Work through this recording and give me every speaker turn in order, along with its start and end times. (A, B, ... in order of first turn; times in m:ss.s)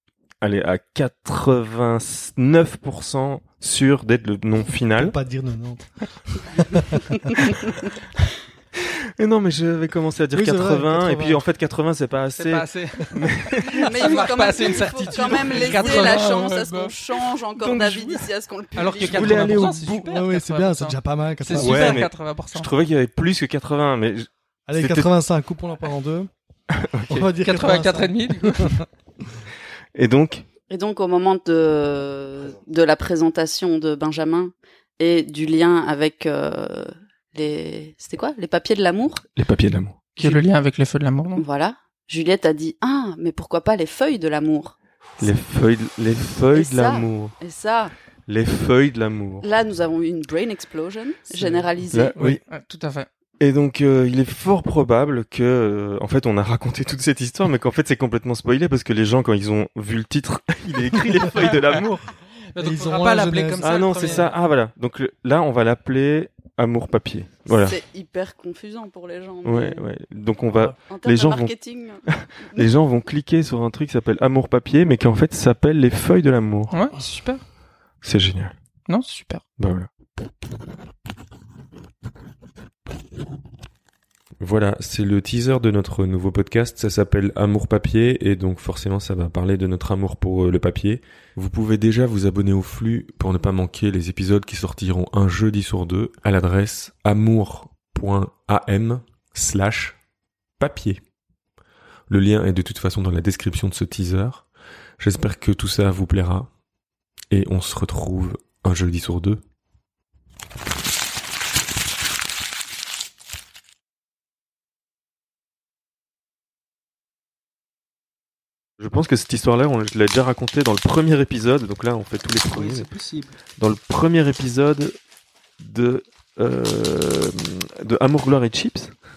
0:00.4-0:05.2 A
0:05.0-0:07.2 B
0:09.2-0:14.3 A
0:10.3-0:11.4 B
0:12.4-0:17.0 C
0:13.8-0:19.8 D
0:15.7-0:16.4 B
0:17.6-0:18.3 A
0:18.8-0:22.7 C
0:19.0-0:20.2 A
0:20.0-0:22.1 B
0:21.5-0:25.1 A
0:24.7-0:26.3 B
0:26.7-0:27.3 A
0:27.1-0:28.8 B
0:27.4-0:28.8 C
0:30.0-0:30.5 A
0:30.7-0:39.2 D
0:39.4-0:40.1 A
0:40.2-0:40.4 D
0:40.2-0:41.4 C
0:41.4-0:44.8 D
0:45.2-0:47.3 A
0:46.5-0:47.9 D
0:48.3-0:49.5 A
0:49.4-0:52.2 D
0:51.9-0:52.4 A
0:52.5-0:53.1 C
0:53.4-1:02.1 A
1:02.5-1:04.3 C
1:02.6-1:04.2 B
1:03.6-1:07.8 A
1:07.5-1:09.8 D
1:09.4-1:11.5 A
1:10.8-1:12.7 D
1:12.1-1:16.8 A
1:16.7-1:17.4 C
1:18.0-1:18.5 A
1:18.9-1:19.4 C
1:19.6-1:19.9 A
1:24.4-1:40.0 A
1:40.6-1:41.0 A
1:42.1-1:44.5 A
1:45.0-1:46.5 A
1:47.3-1:49.4 A
1:58.8-2:02.9 A
2:02.5-2:03.3 B
2:03.6-2:05.0 A
2:05.6-2:08.9 A